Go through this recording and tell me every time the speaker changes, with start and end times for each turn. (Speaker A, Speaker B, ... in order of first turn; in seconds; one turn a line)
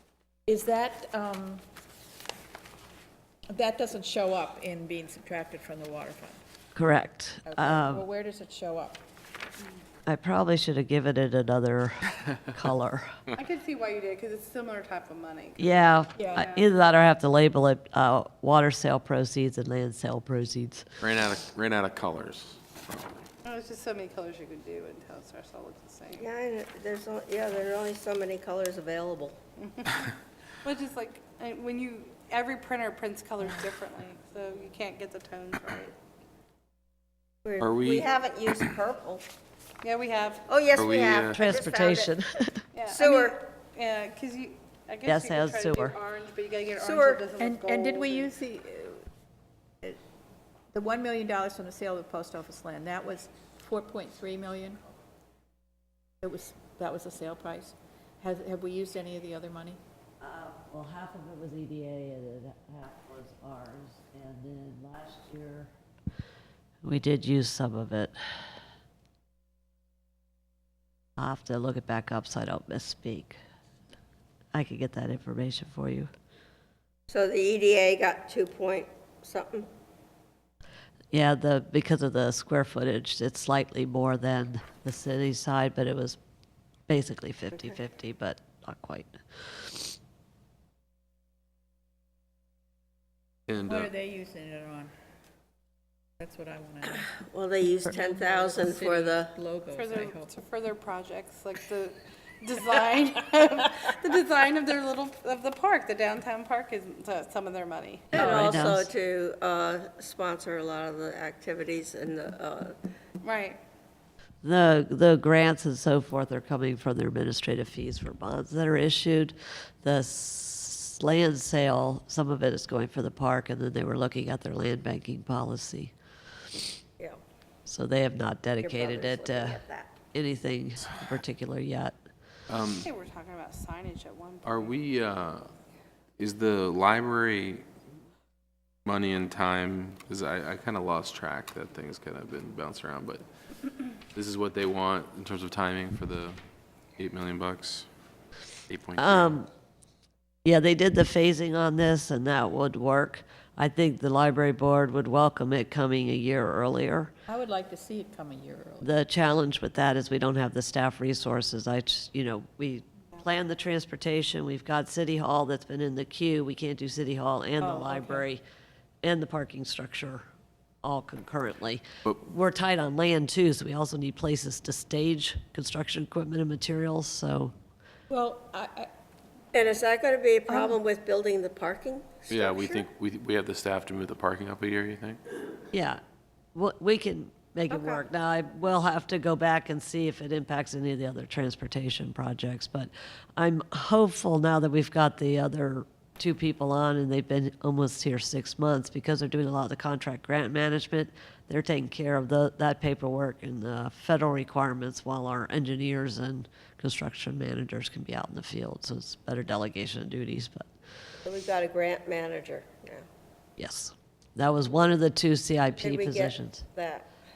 Speaker A: 0.5-1.6
Speaker A: 3.5-6.4
Speaker B: 6.7-8.0
Speaker A: 7.5-9.0
Speaker B: 10.1-13.2
Speaker C: 13.3-16.7
Speaker B: 15.6-20.8
Speaker A: 16.2-16.5
Speaker D: 21.0-23.2
Speaker C: 23.4-26.3
Speaker E: 26.1-29.4
Speaker C: 29.6-30.1
Speaker C: 30.6-35.9
Speaker E: 37.5-39.2
Speaker D: 37.6-38.1
Speaker C: 39.8-40.5
Speaker E: 40.5-42.2
Speaker D: 40.7-41.4
Speaker B: 41.3-42.6
Speaker C: 42.7-48.4
Speaker E: 42.9-43.4
Speaker B: 45.0-46.0
Speaker E: 46.8-47.2
Speaker A: 47.4-49.0
Speaker A: 50.7-54.8
Speaker A: 56.2-59.8
Speaker B: 60.2-65.7
Speaker B: 66.8-68.1
Speaker B: 71.2-73.4
Speaker B: 74.5-76.1
Speaker E: 77.1-79.7
Speaker B: 81.1-86.2
Speaker B: 86.9-89.9
Speaker D: 93.5-93.9
Speaker A: 93.7-94.9
Speaker A: 96.2-97.1
Speaker E: 96.8-99.3
Speaker A: 97.9-100.3
Speaker C: 99.7-108.7
Speaker B: 108.1-108.9
Speaker E: 108.1-112.8
Speaker C: 113.2-113.6
Speaker B: 114.4-125.9
Speaker B: 127.7-129.6
Speaker E: 128.6-129.9
Speaker B: 130.1-132.0
Speaker D: 132.5-132.9
Speaker C: 132.8-134.7
Speaker D: 134.4-135.5
Speaker D: 136.2-137.6
Speaker D: 138.8-143.2
Speaker D: 144.1-146.4
Speaker D: 147.0-147.9
Speaker D: 148.7-149.4
Speaker B: 149.0-149.5
Speaker B: 150.4-157.1
Speaker A: 157.3-158.9
Speaker B: 158.8-168.4
Speaker A: 167.6-168.2
Speaker B: 169.0-170.2
Speaker B: 170.8-177.5
Speaker A: 178.1-178.9
Speaker E: 179.5-182.9
Speaker A: 180.5-180.8
Speaker D: 182.3-185.2
Speaker B: 185.7-186.0
Speaker B: 186.6-210.7
Speaker E: 187.7-188.1
Speaker E: 211.2-213.1
Speaker B: 213.6-216.6
Speaker E: 215.8-217.1